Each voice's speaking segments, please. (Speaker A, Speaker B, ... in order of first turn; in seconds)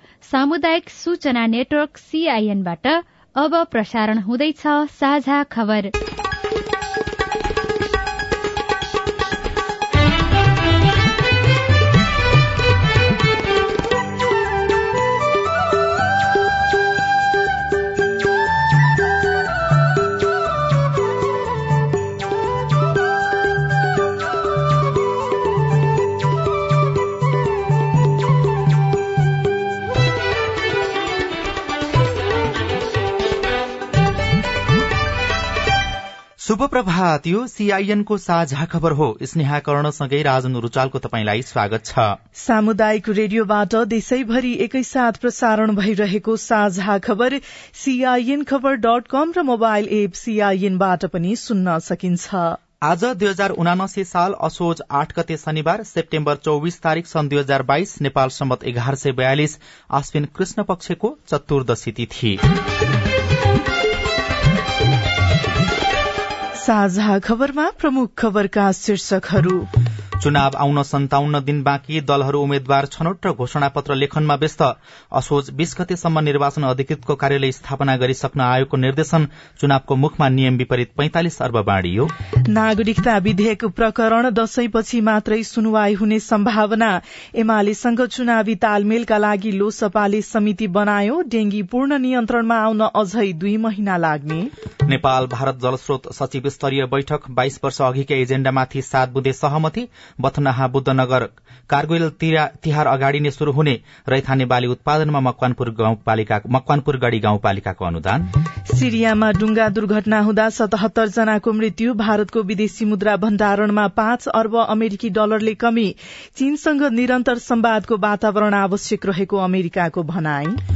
Speaker A: 0.2-5.9
Speaker B: 36.4-42.1, 52.8-62.4, 70.2-82.1, 94.9-108.2
Speaker C: 42.4-52.6, 66.6-69.7, 82.5-94.5, 108.7-120.6